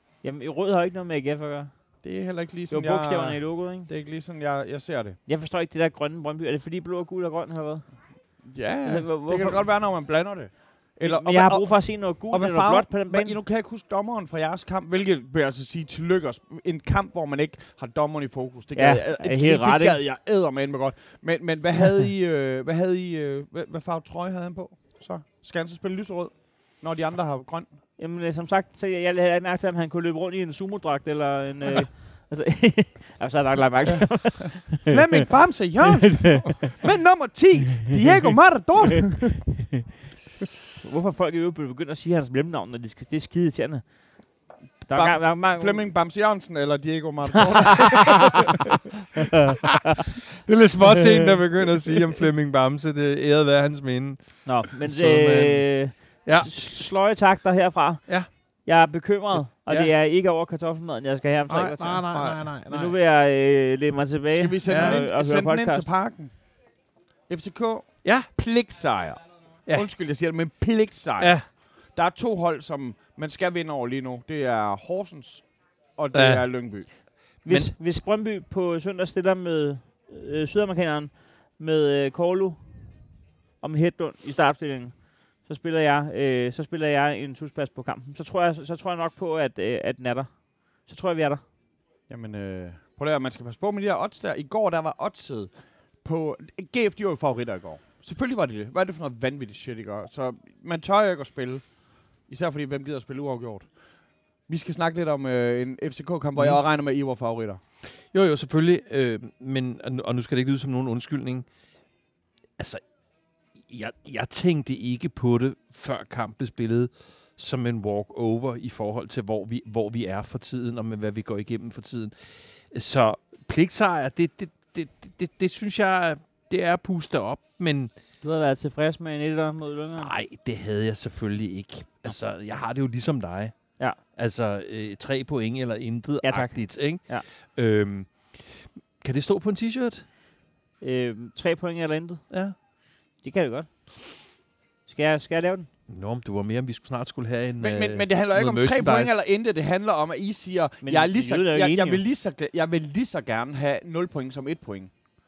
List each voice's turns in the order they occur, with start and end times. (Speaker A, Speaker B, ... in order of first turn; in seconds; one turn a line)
Speaker A: 0.2-2.0
Speaker B: 2.0-5.2
Speaker A: 2.7-3.9
Speaker A: 5.2-9.7
Speaker B: 8.4-27.7
Speaker A: 11.0-13.4
Speaker A: 18.7-20.0
Speaker A: 28.0-35.0
Speaker B: 33.9-39.5
Speaker A: 35.9-36.7
Speaker A: 40.8-45.8
Speaker B: 44.9-48.5
Speaker A: 47.5-48.2
Speaker C: 50.5-57.0
Speaker A: 50.9-51.3
Speaker A: 54.4-65.9
Speaker C: 59.4-59.9
Speaker C: 61.5-63.0
Speaker B: 62.1-62.5
Speaker B: 64.3-77.0
Speaker C: 64.6-65.0
Speaker C: 68.0-68.3
Speaker C: 71.2-71.5
Speaker C: 76.1-77.7
Speaker A: 77.4-91.4
Speaker B: 92.1-107.6
Speaker C: 106.3-106.6
Speaker C: 107.9-111.5
Speaker C: 112.6-112.9
Speaker C: 113.5-127.9
Speaker A: 128.2-130.1
Speaker C: 130.0-140.1
Speaker A: 136.2-137.2
Speaker A: 140.8-142.6
Speaker C: 142.3-142.5
Speaker A: 143.2-145.7
Speaker C: 145.9-149.2
Speaker B: 147.6-155.1
Speaker A: 150.8-152.0